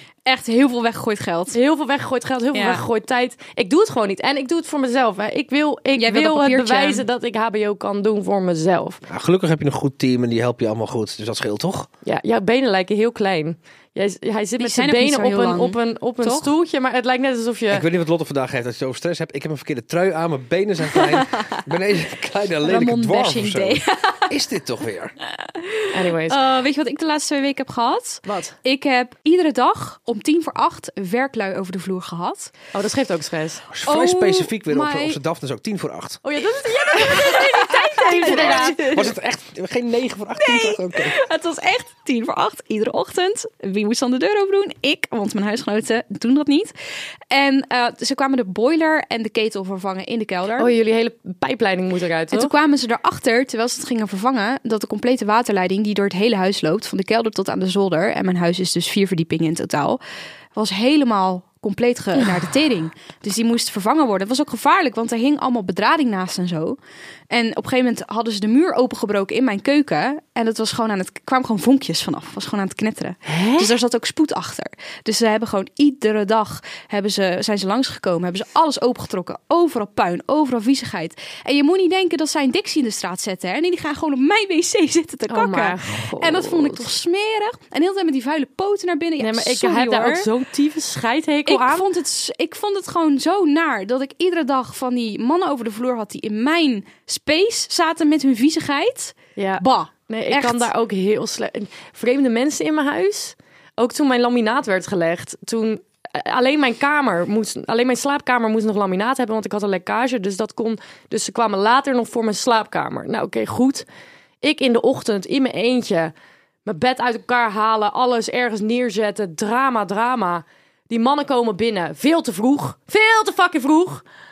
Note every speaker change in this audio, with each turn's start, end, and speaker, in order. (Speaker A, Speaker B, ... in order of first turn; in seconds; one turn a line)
Speaker A: 0.2-1.6
Speaker B: 1.5-9.0
Speaker A: 2.5-2.8
Speaker A: 5.9-7.0
Speaker C: 9.1-11.9
Speaker B: 12.0-17.8
Speaker A: 14.6-16.5
Speaker C: 17.7-25.1
Speaker A: 20.9-21.6
Speaker A: 22.6-24.4
Speaker A: 25.4-32.5
Speaker B: 25.9-26.4
Speaker B: 28.2-28.6
Speaker B: 32.7-33.6
Speaker C: 33.7-36.2
Speaker A: 33.9-35.2
Speaker B: 36.2-39.1
Speaker A: 36.9-39.1
Speaker C: 38.2-41.2
Speaker A: 40.4-46.7
Speaker A: 47.3-50.7
Speaker B: 50.6-52.5
Speaker A: 52.3-60.0
Speaker A: 60.5-66.8
Speaker A: 67.3-90.3
Speaker B: 73.2-73.7
Speaker B: 85.3-86.9
Speaker B: 89.2-91.8
Speaker A: 91.5-100.7
Speaker B: 99.3-113.9
Speaker B: 114.4-116.1
Speaker B: 116.6-124.0